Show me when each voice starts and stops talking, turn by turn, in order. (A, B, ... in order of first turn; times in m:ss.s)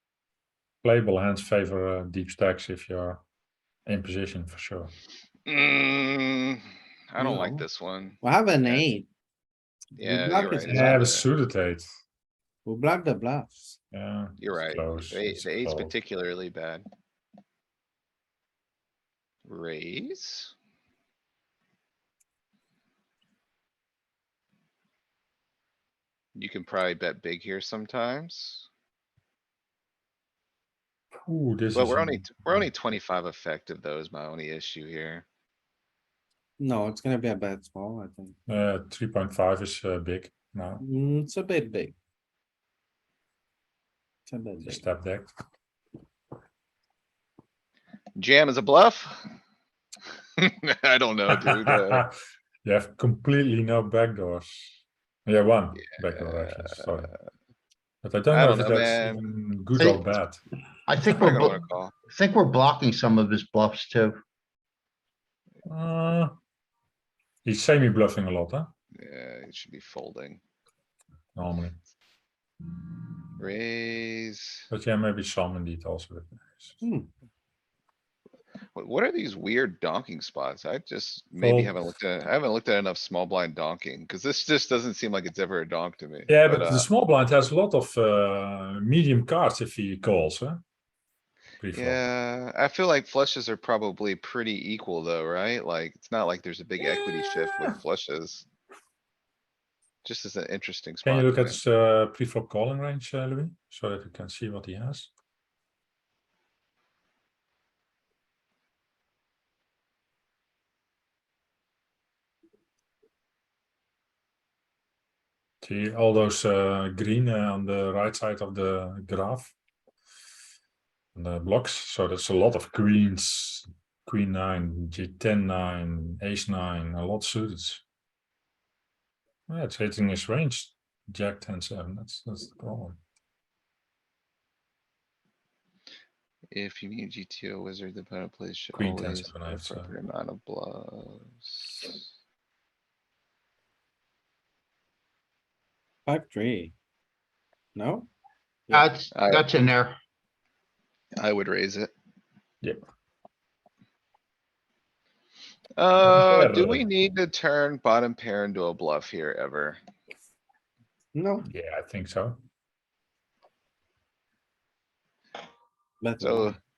0:00.8-0:03.2 A
0:03.8-0:04.9 A
0:05.5-0:08.8 B
0:07.2-0:07.6 C
0:08.2-0:09.1 C
0:10.0-0:11.1 C
0:10.0-0:11.3 B
0:10.6-0:11.9 A
0:12.6-0:13.8 C
0:13.9-0:16.0 A
0:14.4-0:16.8 B
0:19.4-0:20.5 B
0:26.3-0:28.7 B
0:31.2-0:32.2 A
0:31.7-0:35.2 B
0:36.6-0:38.4 C
0:38.5-0:40.8 A
0:40.8-0:41.9 C
0:44.3-0:44.8 C
0:44.6-0:45.3 A
0:48.2-0:49.3 B
0:50.4-0:52.0 B
0:51.3-0:57.1 A
0:56.0-0:56.7 B
0:58.0-1:00.4 A
0:58.3-0:59.3 B
0:59.8-1:00.1 D
1:00.9-1:04.2 D
1:01.0-1:01.9 B
1:05.6-1:06.4 A
1:07.4-1:08.7 A
1:09.0-1:10.4 B
1:11.3-1:11.8 A
1:13.4-1:14.6 B
1:14.7-1:16.8 A
1:16.8-1:17.1 C
1:18.7-1:26.9 B
1:21.4-1:21.8 A
1:26.3-1:30.6 A
1:31.6-1:32.0 A
1:31.7-1:38.4 B
1:37.3-1:37.7 A
1:40.0-1:41.6 B
1:41.0-1:45.1 A
1:55.6-1:59.5 A
2:01.1-2:07.8 A
2:09.5-2:13.0 A
2:16.5-2:22.0 B
2:18.7-2:19.9 A
2:26.0-2:26.7 C
2:27.7-2:28.1 C
2:28.7-2:30.0 D
2:29.1-2:29.5 B
2:31.2-2:31.9 B
2:35.8-2:39.8 B
2:36.0-2:36.8 A
2:41.1-2:41.4 C
2:41.4-2:42.4 A
2:46.0-2:46.6 C
2:46.2-2:46.6 B